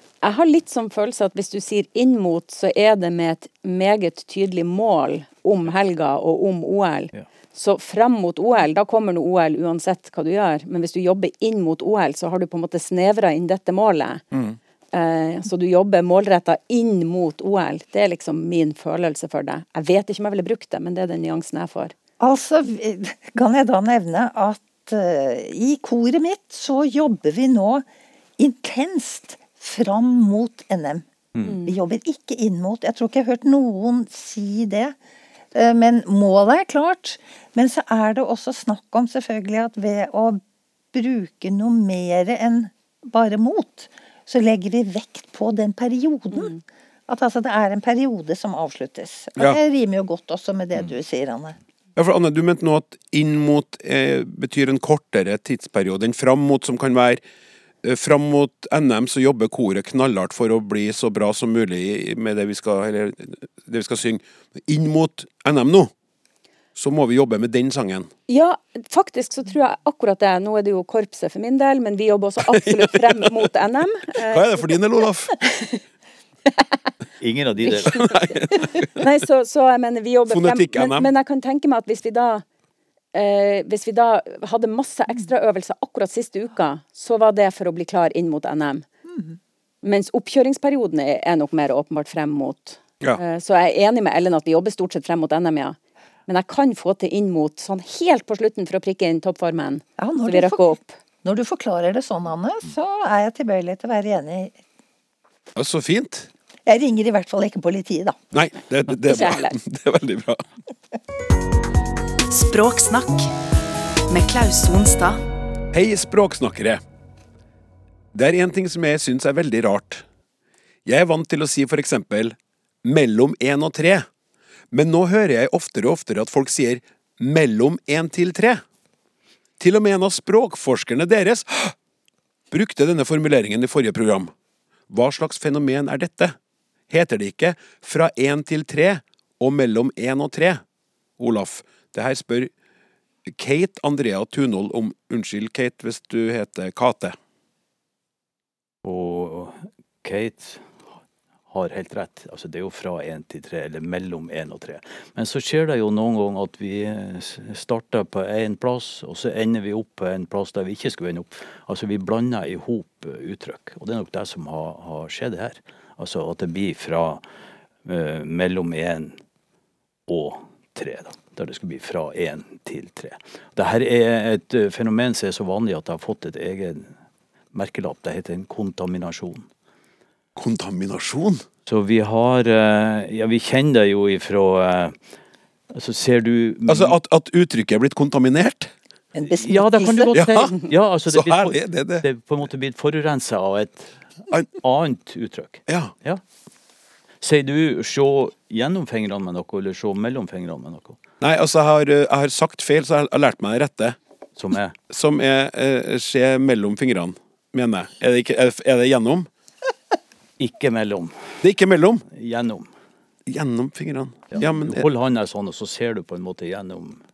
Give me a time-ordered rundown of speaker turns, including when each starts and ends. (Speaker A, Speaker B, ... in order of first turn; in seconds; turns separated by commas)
Speaker A: 0.2-14.2, Speaker B: 14.3-14.6, Speaker A: 14.9-21.9, Speaker C: 22.2-27.8, Speaker C: 28.4-31.1, Speaker A: 31.4-31.7, Speaker C: 31.6-35.0, Speaker C: 35.5-40.4, Speaker C: 40.9-46.5, Speaker C: 47.1-51.6, Speaker B: 52.0-57.2, Speaker B: 57.8-65.9, Speaker B: 66.8-68.1, Speaker A: 68.3-74.7, Speaker B: 72.5-73.0, Speaker B: 74.2-75.4, Speaker D: 77.2-78.2, Speaker B: 77.8-79.0, Speaker A: 78.7-82.4, Speaker B: 80.3-81.1, Speaker A: 83.1-88.9, Speaker A: 89.8-101.0, Speaker C: 100.0-104.5, Speaker B: 105.5-106.3, Speaker C: 106.7-108.2, Speaker B: 108.3-110.4, Speaker A: 109.0-109.6, Speaker E: 112.3-113.3, Speaker E: 114.1-115.2, Speaker B: 115.7-116.8, Speaker B: 118.1-120.0, Speaker B: 120.8-124.1, Speaker B: 124.7-128.6, Speaker B: 129.6-131.7, Speaker B: 132.5-134.3, Speaker B: 134.9-136.3, Speaker B: 136.9-140.6, Speaker B: 141.2-142.5, Speaker B: 143.3-147.2, Speaker D: 148.8-150.7, Speaker D: 151.5-167.2, Speaker D: 167.8-169.2, Speaker D: 170.1-176.9, Speaker D: 177.5-179.5, Speaker B: 180.3-181.4, Speaker D: 181.7-184.9, Speaker D: 185.7-186.9, Speaker B: 186.7-188.7, Speaker C: 189.1-190.1, Speaker D: 189.4-196.2, Speaker B: 190.1-190.5, Speaker B: 191.1-192.1, Speaker B: 195.7-195.9, Speaker D: 197.2-201.0, Speaker B: 201.2-204.0, Speaker D: 204.3-204.7, Speaker B: 204.9-209.3, Speaker D: 210.4-211.4, Speaker B: 211.4-212.0, Speaker D: 212.1-212.7, Speaker B: 213.3-214.9, Speaker D: 214.3-217.0